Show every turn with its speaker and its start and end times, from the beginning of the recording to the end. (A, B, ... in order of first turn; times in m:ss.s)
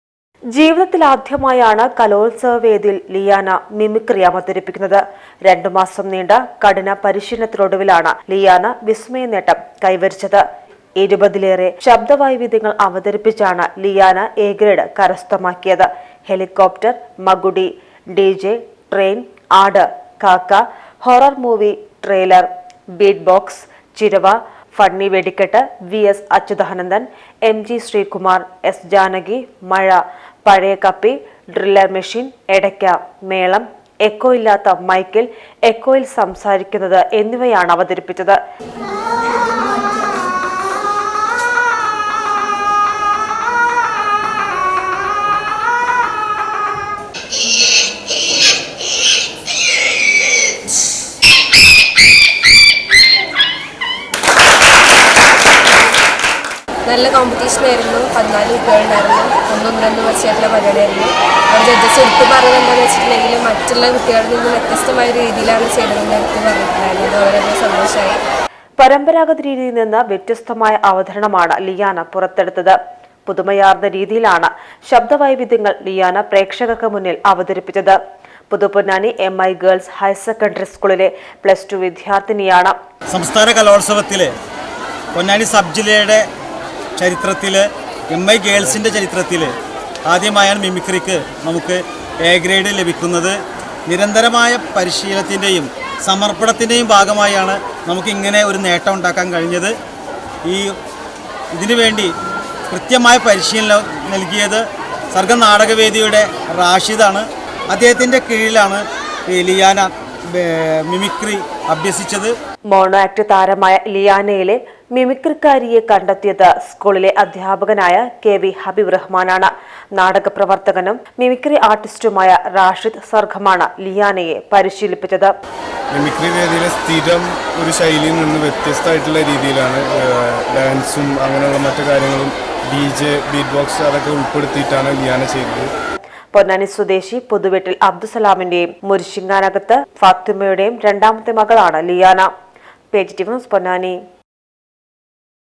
0:00.5-0:10.4 A
0:11.0-0:38.4 A
0:56.9-1:08.2 B
1:08.8-1:18.0 A
1:18.5-1:22.8 A
1:23.3-1:24.3 C
1:25.2-1:26.2 C
1:27.0-1:29.5 C
1:30.1-1:33.3 C
1:33.9-1:39.7 C
1:41.6-1:42.1 C
1:42.7-1:44.6 C
1:45.2-1:47.2 C
1:47.7-1:52.3 C
1:52.7-2:05.3 A
2:05.9-2:15.7 D
2:16.3-2:22.3 A
2:22.9-2:24.0 A